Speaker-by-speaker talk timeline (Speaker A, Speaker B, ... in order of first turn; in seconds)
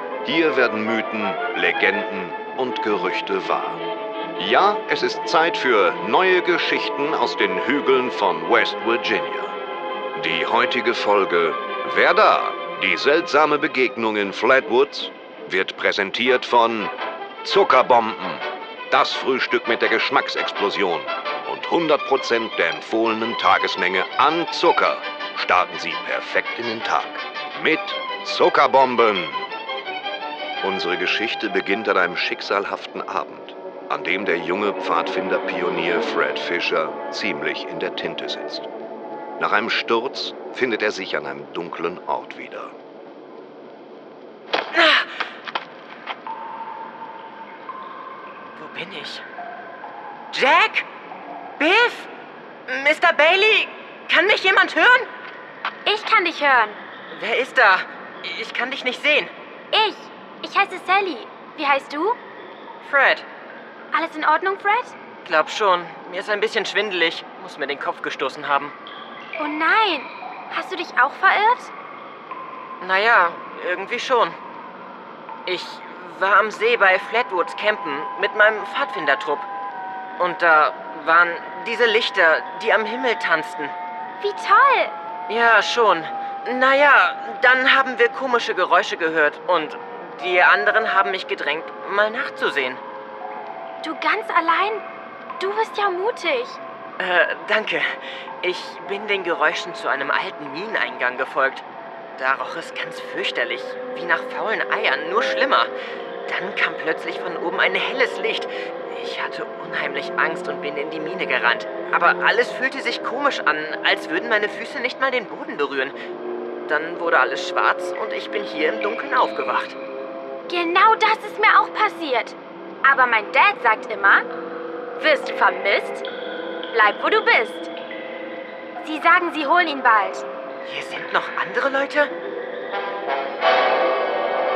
Speaker A: 0.2-3.8, 4.4-9.6, 10.2-29.5, 30.6-38.7, 39.4-42.7
Speaker B: 44.7-45.1, 48.5-49.2, 50.3-50.9, 51.6-52.1, 52.7-55.1, 57.1-59.3, 62.8-63.2, 65.2-68.7, 72.8-74.4, 75.5-79.5, 80.2-83.7, 85.3-92.8, 97.0-97.8, 98.4-101.6, 102.2-105.7, 106.3-115.9, 116.7-119.8, 130.7-132.1
Speaker C: 55.8-56.8, 59.7-62.2, 63.9-64.9, 69.4-71.7, 84.2-85.0, 93.8-94.8, 95.4-96.6, 120.5-124.2, 125.0-126.0, 126.7-127.7, 128.8-130.2